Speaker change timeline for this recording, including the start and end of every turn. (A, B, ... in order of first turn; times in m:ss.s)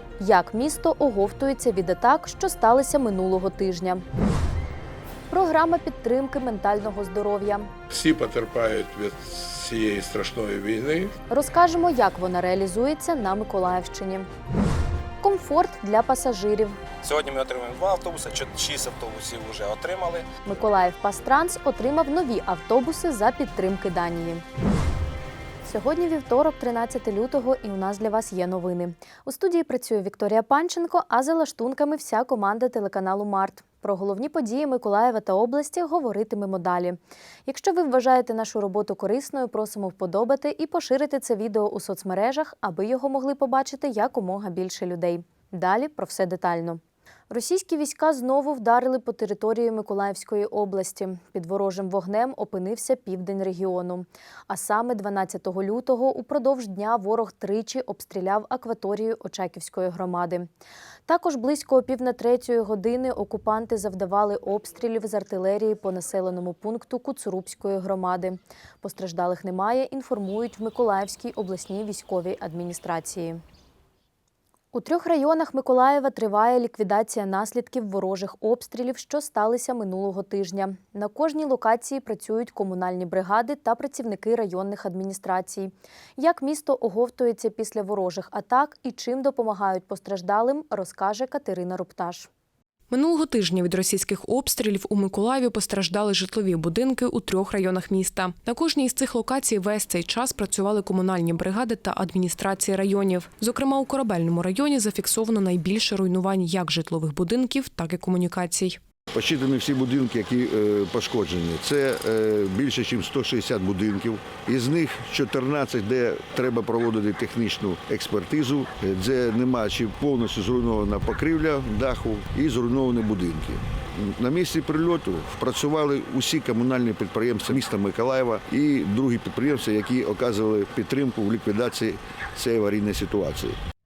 0:00.2-0:04.0 A
0:05.3-0:07.7 A
0:07.9-0:11.1 B
0:11.3-0:14.3 A
0:15.2-0:16.8 A
0:17.1-0:20.2 C
0:20.4-0:24.4 A
0:25.6-1:00.5 A
1:01.1-1:13.4 A
1:14.7-1:32.3 A
1:32.9-1:48.8 D
1:49.1-2:13.6 E